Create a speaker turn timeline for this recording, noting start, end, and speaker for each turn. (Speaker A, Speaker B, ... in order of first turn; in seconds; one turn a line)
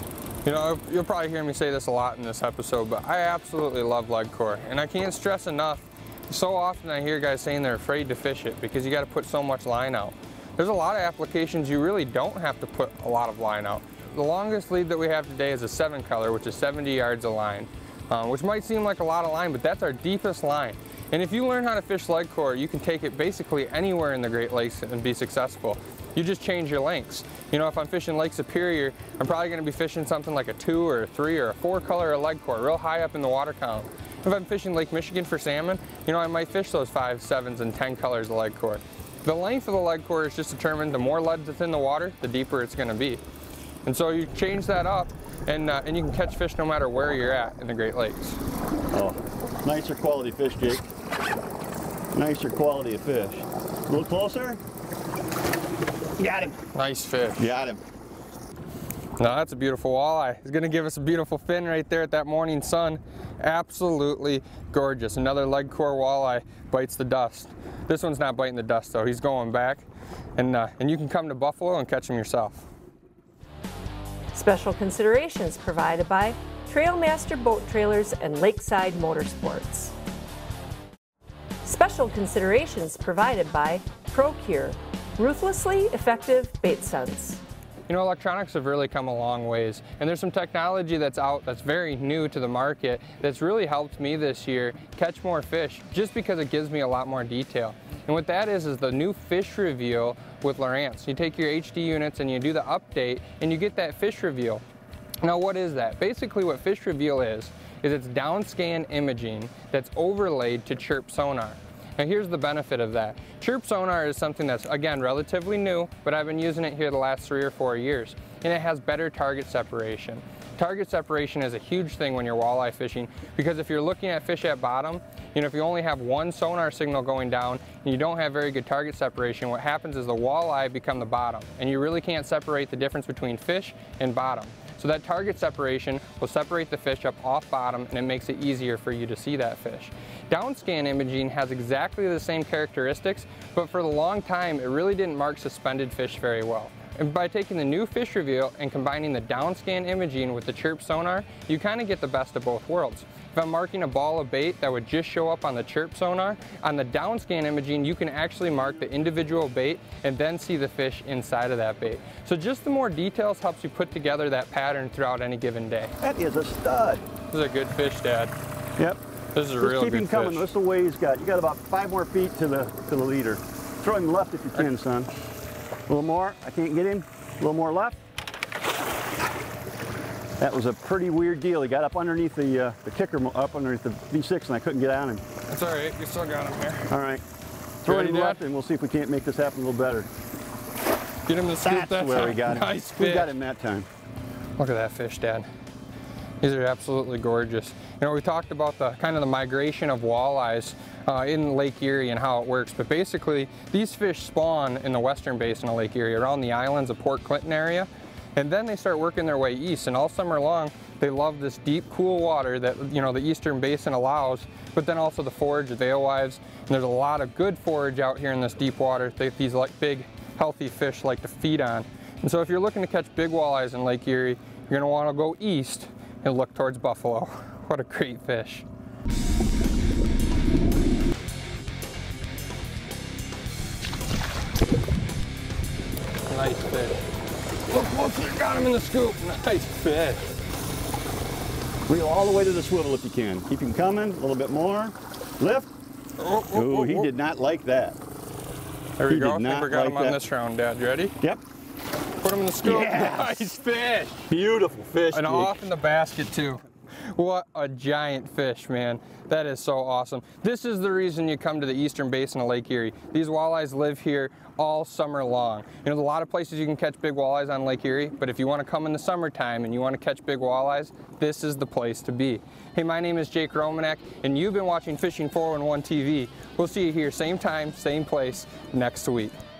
Speaker A: 0.5-43.2
Speaker A: 43.9-48.4
Speaker B: 48.9-50.9
Speaker B: 52.1-54.6
Speaker B: 56.2-56.6
Speaker A: 56.7-57.5
Speaker B: 57.4-57.8
Speaker A: 59.2-69.9
Speaker A: 70.4-72.7
Speaker C: 74.3-79.9
Speaker C: 81.7-87.4
Speaker A: 87.9-104.6
Speaker A: 105.2-165.9
Speaker B: 166.0-167.1
Speaker A: 167.3-168.3
Speaker A: 169.3-170.5
Speaker B: 169.6-175.1
Speaker B: 175.9-178.0
Speaker B: 180.4-185.2
Speaker A: 185.5-186.9
Speaker B: 186.9-187.2
Speaker B: 187.8-190.1
Speaker A: 187.9-188.4
Speaker A: 191.3-193.3
Speaker B: 191.6-193.9
Speaker A: 194.6-195.5
Speaker A: 196.4-228.7
Speaker A: 236.3-237.0
Speaker A: 237.7-240.3
Speaker B: 241.9-245.7
Speaker A: 246.2-247.1
Speaker B: 246.5-248.0
Speaker A: 249.0-251.2
Speaker B: 249.1-250.2
Speaker A: 252.2-254.2
Speaker B: 252.6-253.5
Speaker B: 254.2-255.6
Speaker A: 255.1-279.4